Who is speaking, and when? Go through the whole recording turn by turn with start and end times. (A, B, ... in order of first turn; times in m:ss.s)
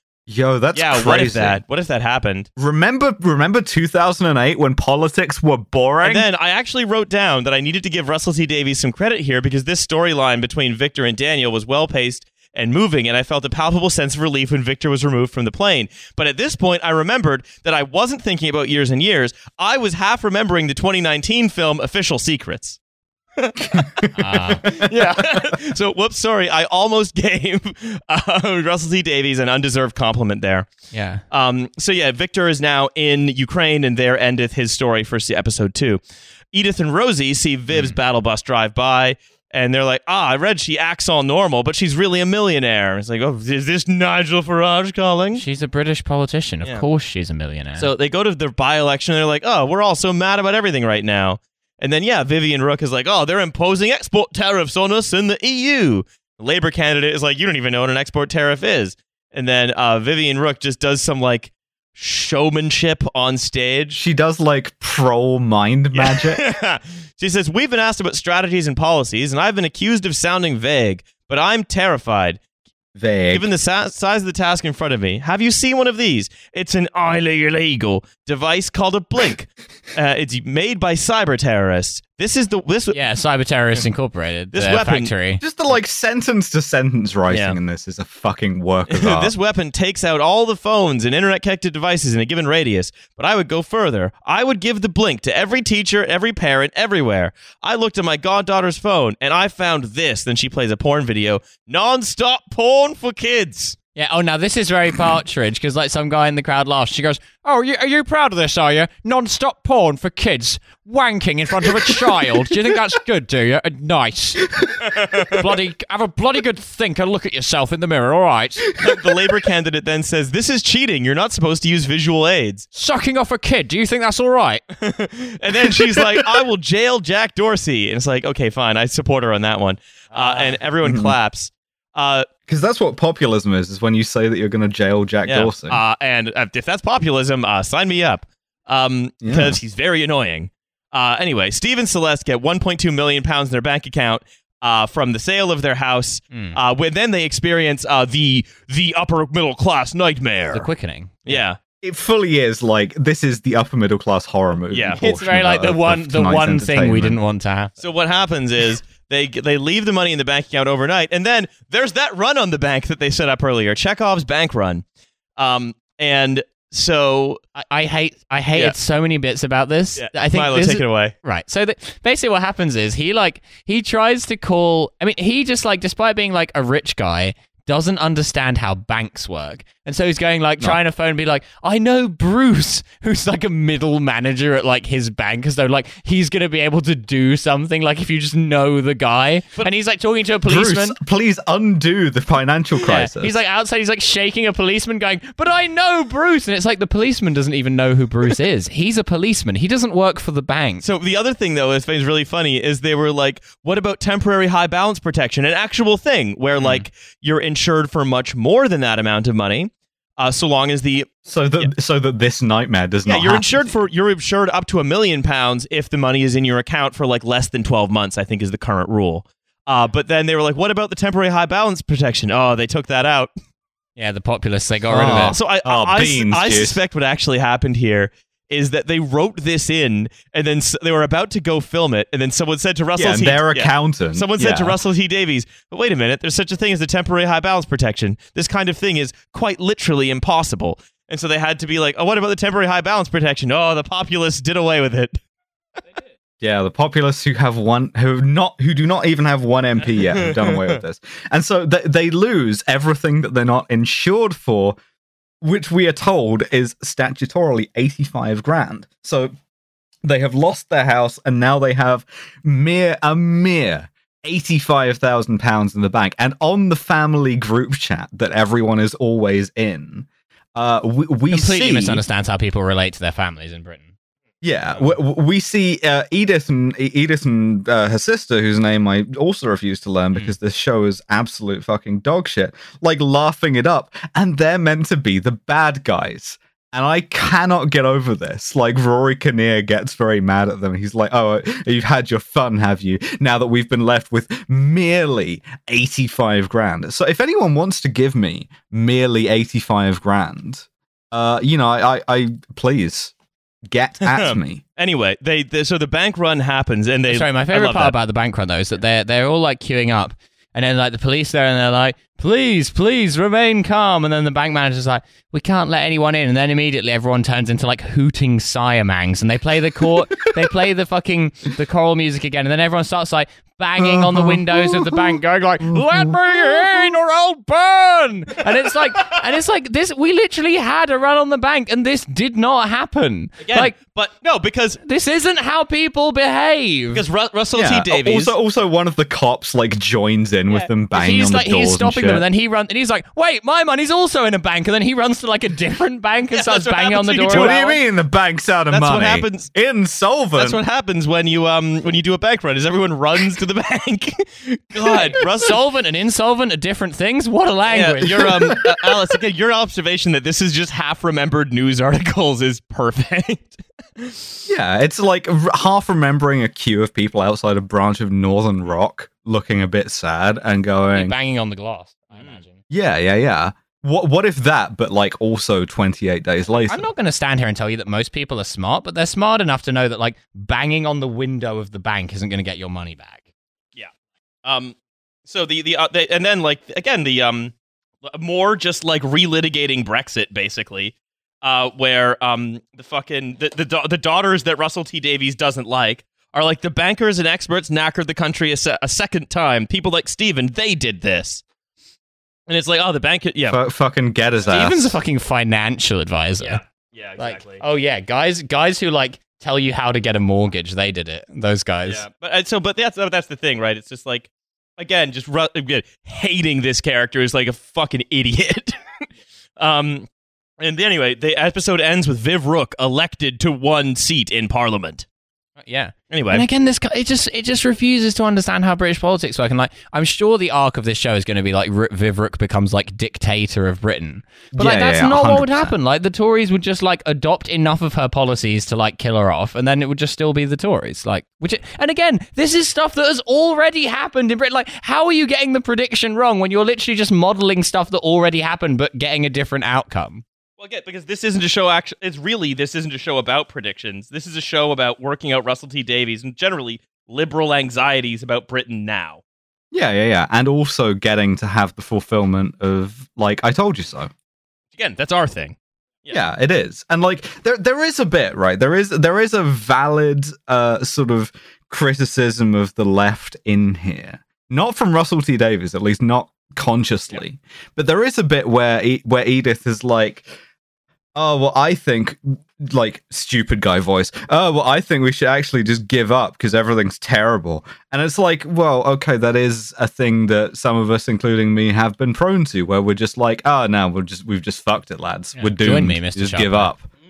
0:00.3-0:01.6 A
0:00.7-0:02.5 B
0:02.6-0:06.3 A
0:06.0-0:22.8 B
0:23.4-0:30.7 B
0:23.8-0:24.1 A
0:24.2-0:24.9 C
0:25.2-0:25.5 A
0:30.9-0:31.2 C
0:31.3-0:36.0 B
0:36.5-0:45.4 B
0:45.4-0:47.9 C
0:47.8-1:04.0 B
1:04.0-1:06.4 A
1:06.0-1:12.4 B
1:13.0-1:13.5 A
1:13.3-1:23.0 B
1:22.9-1:25.4 C
1:24.5-1:25.1 B
1:25.4-1:29.3 A
1:27.3-1:27.6 B
1:28.9-1:43.8 B
1:44.0-1:58.7 C
1:54.9-1:55.3 B
1:58.8-2:02.7 B
2:02.7-2:04.6 C
2:04.8-2:12.3 B
2:05.7-2:06.4 A
2:10.8-2:11.2 A
2:12.5-2:15.8 A
2:15.3-2:30.7 B
2:19.2-2:19.6 A
2:30.5-2:31.4 C
2:31.3-2:31.6 B
2:31.8-2:37.2 A
2:34.7-2:35.0 B
2:35.0-2:37.7 C
2:37.8-2:44.8 B
2:45.4-2:47.4 B
2:47.6-3:11.0 C
2:50.0-2:51.1 B
3:10.4-3:13.4 A
3:12.8-3:20.8 C
3:20.8-3:31.7 B
3:26.6-3:26.9 C
3:31.3-3:33.5 A
3:33.1-3:43.3 B
3:44.0-3:45.4 C
3:44.9-3:46.8 A
3:45.1-4:05.2 B
3:53.0-3:54.8 A
4:06.4-4:14.8 A
4:10.0-4:10.8 B
4:15.4-4:19.3 A
4:20.0-4:32.0 A
4:31.3-4:33.9 C
4:34.4-5:03.1 A
5:03.7-5:04.6 A
5:04.0-5:08.0 B
5:07.1-5:33.7 C
5:23.8-5:26.9 A
5:33.4-5:34.8 B
5:34.8-5:37.0 C
5:36.9-5:38.3 B
5:37.6-5:42.2 A
5:40.9-5:47.8 C
5:46.3-5:47.8 B
5:47.3-5:50.6 A
5:48.7-5:49.5 B
5:50.4-5:55.6 B
5:55.1-5:58.6 C
5:57.7-6:04.4 B
5:58.4-5:58.7 A
6:04.5-6:11.2 A
6:10.9-6:12.6 C
6:12.7-6:16.9 A
6:16.7-6:23.2 C
6:24.4-6:24.8 B
6:25.3-6:41.4 B
6:42.5-6:43.6 B
6:43.5-6:45.0 A
6:44.5-6:46.6 C
6:46.4-6:47.6 B
6:47.2-6:52.0 C
6:51.8-6:58.8 B
6:59.6-7:00.1 B
7:00.6-7:05.1 B
7:05.6-7:30.2 C
7:06.1-7:06.5 B
7:14.5-7:15.7 A
7:30.6-7:39.2 B
7:39.7-7:44.1 A
7:44.7-7:45.6 B
7:46.1-8:00.3 A
8:01.2-8:16.9 A
8:15.4-8:16.7 C